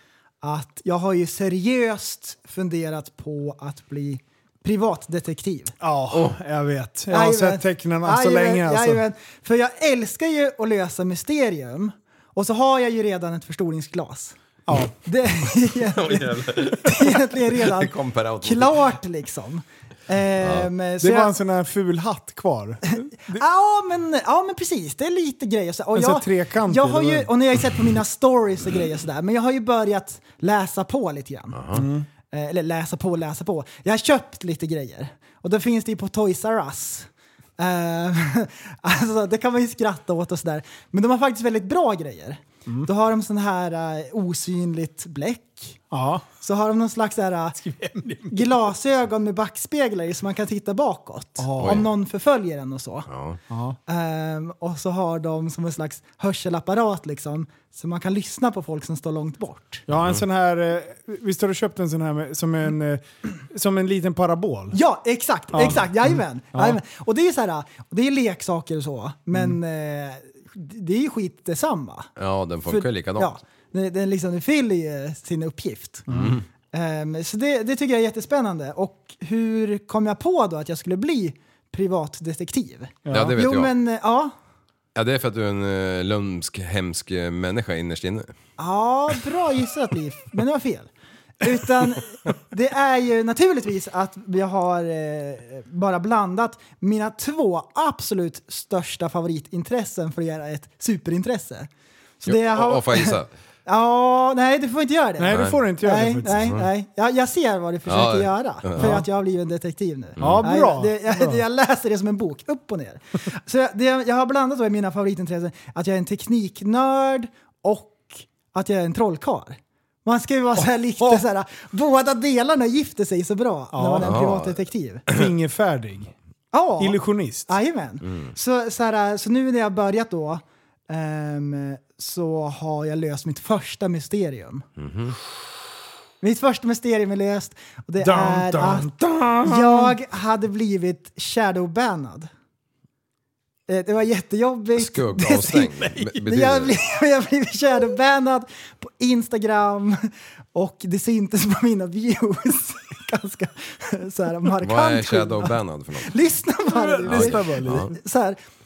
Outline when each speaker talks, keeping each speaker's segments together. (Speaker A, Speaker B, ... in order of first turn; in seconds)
Speaker A: 0.4-5.8, 7.1-14.4, 15.0-21.3, 23.3-31.6, 32.3-45.8, 46.4-47.6, 48.3-53.1, 53.9-59.8, 64.7-72.1, 72.6-76.1, 76.7-84.3, 88.6-90.9, 91.4-101.7, 102.2-125.0, 126.5-134.6, 136.2-138.9, 139.4-142.3, 143.7-158.4
Speaker B: 5.8-9.0, 14.7-14.9, 21.0-23.4, 25.9-27.3, 31.7-32.1, 45.9-46.2, 47.6-48.6, 51.4-51.9, 53.5-53.8, 59.9-64.8, 65.5-66.8, 76.1-76.4, 83.0-83.3, 105.2-106.5, 108.8-109.0, 110.2-111.4, 123.7-124.2, 125.1-126.1, 126.8-127.5, 138.0-139.9, 156.7-157.9
Speaker C: 15.8-18.8, 20.4-20.7, 31.5-31.9, 51.6-51.9, 53.1-53.4, 72.2-73.3, 76.1-76.4, 83.1-83.7, 84.9-88.3, 102.2-103.3, 105.3-105.6, 106.3-106.7, 107.9-109.0, 110.2-110.5, 124.0-125.2, 128.1-128.3, 134.8-135.2, 144.8-146.8, 154.6-156.1, 157.1-157.9